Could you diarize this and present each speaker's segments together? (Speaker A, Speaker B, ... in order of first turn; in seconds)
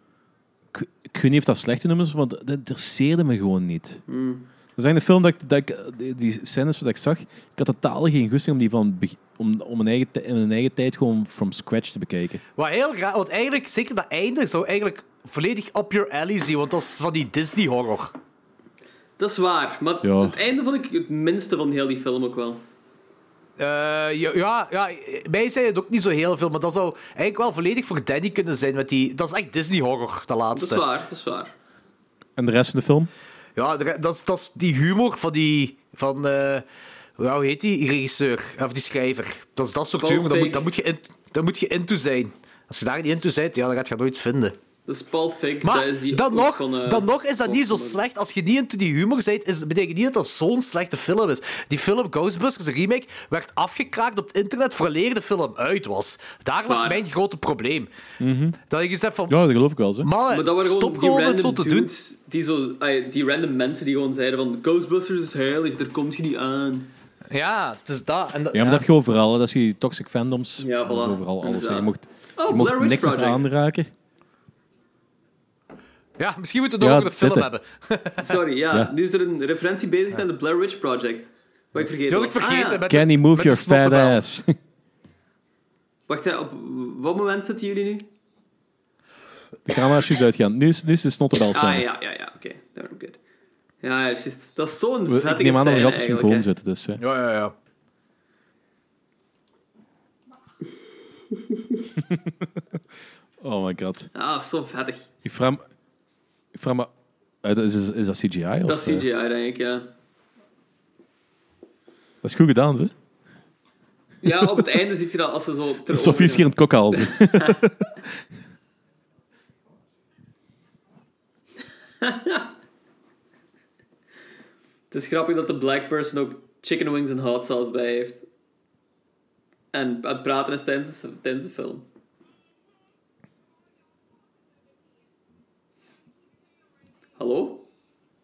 Speaker A: 0.7-4.0, 4.8-12.4, 20.0-20.4, 32.4-33.1, 58.2-58.6, 59.3-60.1, 68.5-73.9, 76.8-77.5, 82.9-84.5, 89.7-91.8, 95.1-97.0, 102.0-102.5, 103.4-104.1, 105.2-105.6, 106.5-106.9, 107.4-109.0, 112.2-112.9, 115.9-117.8
Speaker B: 4.1-4.5, 19.2-22.6, 30.5-31.5, 40.0-40.6, 44.9-48.0, 56.6-57.0, 60.3-66.9, 70.6-73.5, 78.2-82.8, 86.1-88.1, 91.5-93.2, 93.8-96.5, 104.1-105.0, 108.7-109.9, 114.2-117.6, 122.0-122.5, 124.9-128.2, 129.7-131.8, 137.2-137.6
Speaker C: 12.6-18.1, 23.6-30.8, 33.5-36.6, 37.2-44.5, 45.6-57.9, 58.7-59.4, 60.0-61.9, 67.3-68.8, 76.2-78.4, 82.1-84.2, 97.0-97.5